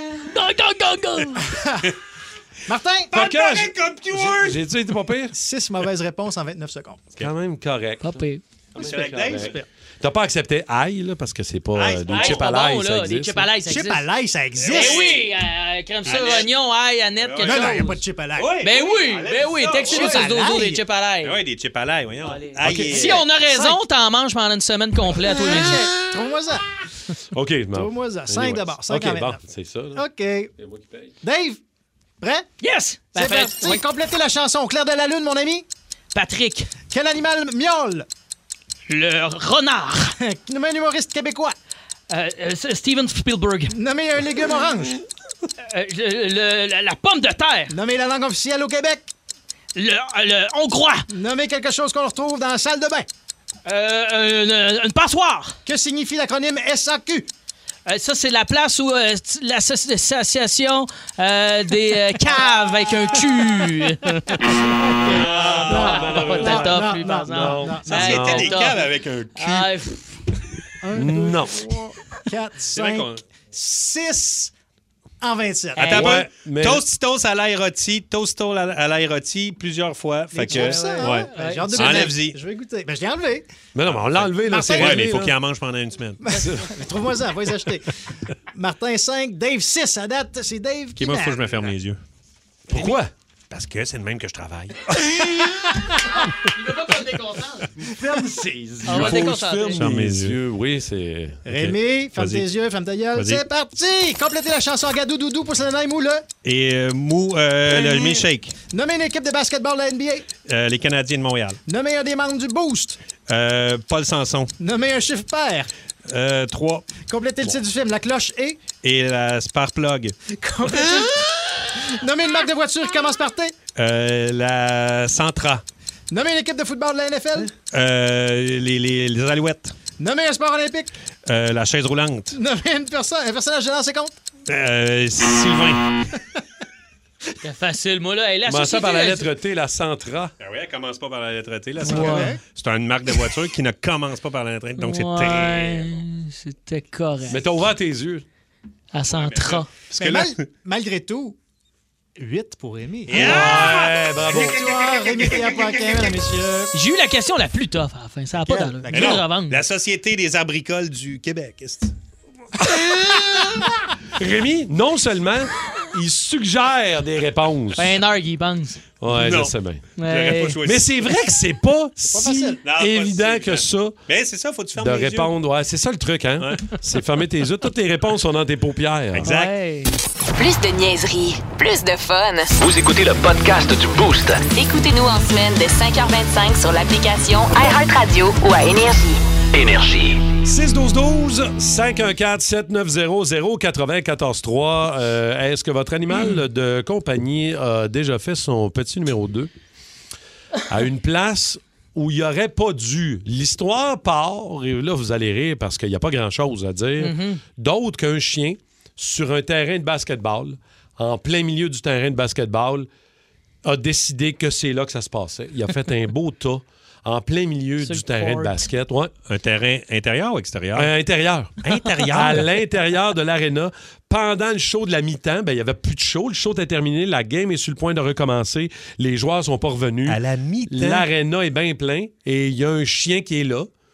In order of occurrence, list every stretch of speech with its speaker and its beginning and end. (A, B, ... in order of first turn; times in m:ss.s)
0:00.2-0:01.5 A
0:01.5-0:01.9 B
0:02.7-0:03.2 B
0:03.1-0:05.3 C
0:03.1-0:04.6 D
0:05.3-0:07.0 B
0:07.2-0:08.2 C
0:08.0-0:08.4 A
0:08.8-0:09.6 D
0:08.8-0:13.5 C
0:09.3-0:09.7 B
0:11.8-0:12.4 D
0:12.1-0:14.1 A
0:13.6-0:15.1 B
0:14.6-0:15.3 D
0:14.7-0:18.0 A
0:16.1-0:16.5 D
0:17.2-0:20.2 D
0:17.4-0:18.6 B
0:18.6-0:21.4 A
0:19.8-0:20.8 B
0:21.2-0:23.3 D
0:22.6-0:23.0 C
0:22.9-0:25.9 A
0:23.4-0:23.8 B
0:25.2-0:26.6 B
0:27.3-0:30.0 C
0:27.7-0:29.4 B
0:30.0-0:30.5 B
0:30.6-0:31.2 C
0:31.2-0:31.6 B
0:32.2-0:32.5 B
0:32.6-0:33.8 A
0:33.1-0:35.7 B
0:36.1-0:36.7 A
0:36.9-0:38.1 B
0:38.9-0:40.2 A
0:40.2-0:41.6 B
0:42.1-0:43.8 A
0:43.7-0:45.0 B
0:45.6-0:47.7 A
0:47.7-0:49.1 B
0:49.8-0:51.1 A
0:51.1-0:53.1 B
0:53.6-0:55.6 A
0:55.6-0:57.3 B
0:57.9-1:04.4 A
1:04.6-1:08.4 B
1:05.3-1:05.9 D
1:05.4-1:08.6 C
1:05.7-1:10.2 A
1:07.9-1:09.7 D
1:10.8-1:14.5 B
1:11.0-1:11.7 C
1:12.7-1:13.2 D
1:15.2-1:16.2 B
1:15.8-1:22.4 D
1:15.9-1:16.8 C
1:20.4-1:23.5 B
1:20.5-1:22.0 A
1:23.7-1:25.3 C
1:23.9-1:26.4 D
1:24.4-1:25.1 B
1:26.2-1:27.9 B
1:28.5-1:31.7 B
1:31.0-1:32.0 D
1:32.7-1:33.1 C
1:33.5-1:35.0 D
1:36.4-1:37.7 A
1:37.8-1:41.4 C
1:38.8-1:39.8 A
1:38.9-1:39.2 D
1:39.8-1:40.4 D
1:41.5-1:46.3 B
1:41.5-1:42.5 D
1:43.2-1:43.4 D
1:46.4-1:48.6 D
1:47.7-1:50.3 B
1:50.5-1:51.6 D
1:51.7-1:53.0 B
1:53.3-1:54.5 D
1:54.6-1:55.7 B
1:56.1-1:57.5 D
1:57.0-1:58.6 B
1:58.8-2:00.2 D
2:00.3-2:03.5 B
2:03.8-2:05.6 D
2:06.1-2:07.5 B
2:07.7-2:09.8 D
2:10.0-2:10.9 B
2:11.3-2:12.4 D
2:12.3-2:14.2 B
2:14.5-2:15.8 D
2:17.4-2:19.3 A
2:18.5-2:20.3 C
2:20.4-2:26.0 D
2:21.8-2:22.4 B
2:21.8-2:22.4 A
2:24.8-2:27.4 A
2:27.3-2:28.2 C
2:28.9-2:29.7 A
2:29.1-2:30.5 D
2:30.0-2:31.4 B
2:32.2-2:33.5 B
2:33.1-2:34.8 D
2:33.1-2:34.7 C
2:34.3-2:36.7 B
2:36.7-2:39.6 A
2:38.4-2:39.2 B
2:38.9-2:42.0 D
2:42.6-2:48.0 C
2:47.8-2:48.8 A
2:49.0-2:49.8 C
2:49.1-2:51.0 D
2:50.0-2:50.6 A
2:50.6-2:54.0 C
2:52.1-2:52.6 B
2:52.6-2:55.3 D
2:54.8-2:59.3 C
2:59.1-2:59.5 D
2:59.2-2:59.9 A
3:00.4-3:02.5 E
3:02.6-3:04.4 F
3:04.5-3:09.2 E
3:09.5-3:10.2 F
3:10.4-3:19.5 C
3:20.7-3:32.9 C
3:27.0-3:27.4 A
3:33.6-3:39.1 C
3:37.8-3:38.6 A
3:39.3-3:40.9 D
3:40.7-3:41.5 C
3:41.6-3:42.5 D
3:42.1-3:53.7 C
3:50.1-3:51.1 D